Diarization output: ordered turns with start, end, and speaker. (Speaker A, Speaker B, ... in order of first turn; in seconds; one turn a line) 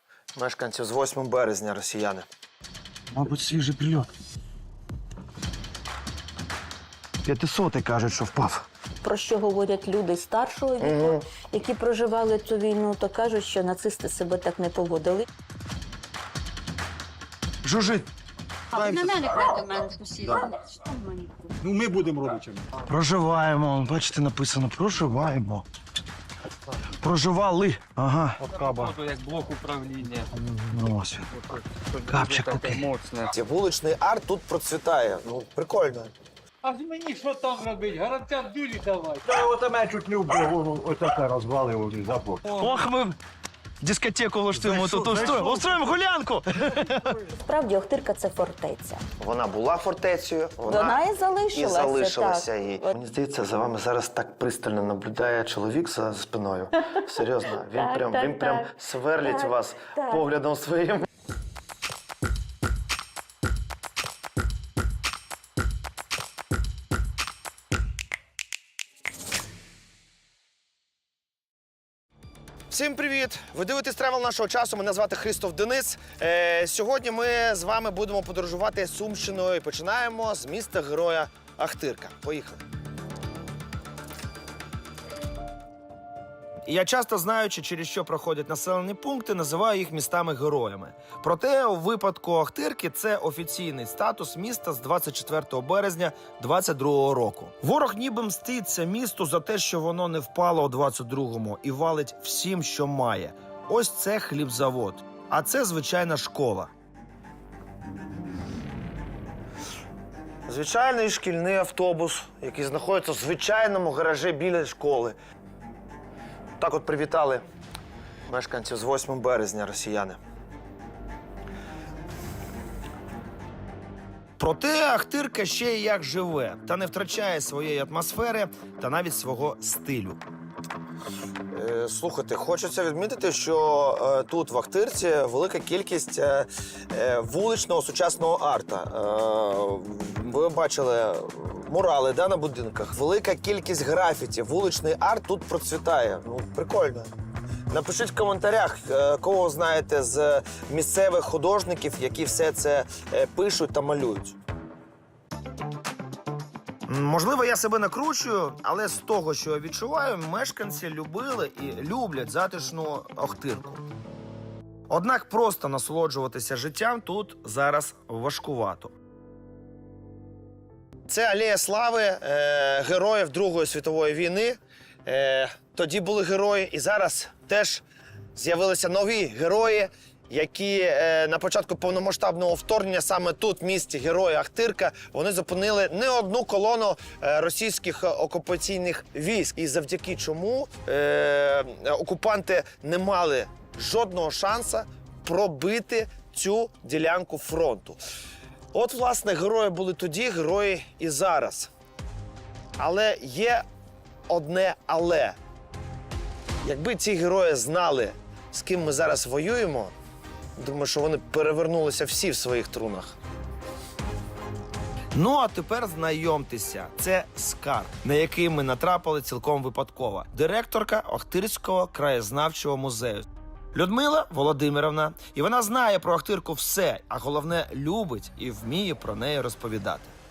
Speaker A: 0.3-2.3
Speaker B: 3.1-4.1
Speaker B: 7.2-8.7
Speaker C: 9.0-15.2
Speaker A: 10.8-11.2
Speaker B: 17.6-18.1
Speaker D: 18.7-21.6
Speaker E: 21.6-22.7
Speaker B: 22.9-25.6
Speaker B: 27.0-28.4
Speaker E: 28.4-28.9
Speaker F: 28.5-30.3
Speaker E: 30.3-30.8
Speaker B: 30.7-31.3
Speaker F: 31.3-33.3
Speaker B: 32.1-32.8
Speaker A: 33.3-36.1
Speaker E: 36.6-38.3
Speaker F: 36.6-39.2
Speaker E: 38.9-42.6
Speaker F: 42.4-42.8
Speaker B: 42.6-43.2
Speaker B: 43.8-47.1
Speaker E: 44.5-45.9
Speaker E: 46.6-47.4
Speaker C: 47.4-49.0
Speaker A: 49.2-51.0
Speaker C: 50.6-52.9
Speaker A: 51.5-61.0
Speaker C: 57.7-60.2
Speaker A: 72.7-82.6
Speaker A: 86.7-106.7
Speaker A: 110.5-115.2
Speaker A: 116.6-117.5
Speaker A: 118.3-120.2
Speaker A: 124.4-130.2
Speaker A: 131.5-147.1
Speaker A: 147.7-154.4
Speaker A: 156.8-163.8
Speaker A: 164.9-168.9
Speaker A: 171.1-177.8
Speaker A: 178.3-198.0
Speaker A: 198.7-201.7
Speaker A: 202.8-203.7
Speaker A: 204.3-205.4
Speaker A: 206.6-209.9
Speaker A: 210.6-213.2
Speaker A: 215.1-230.1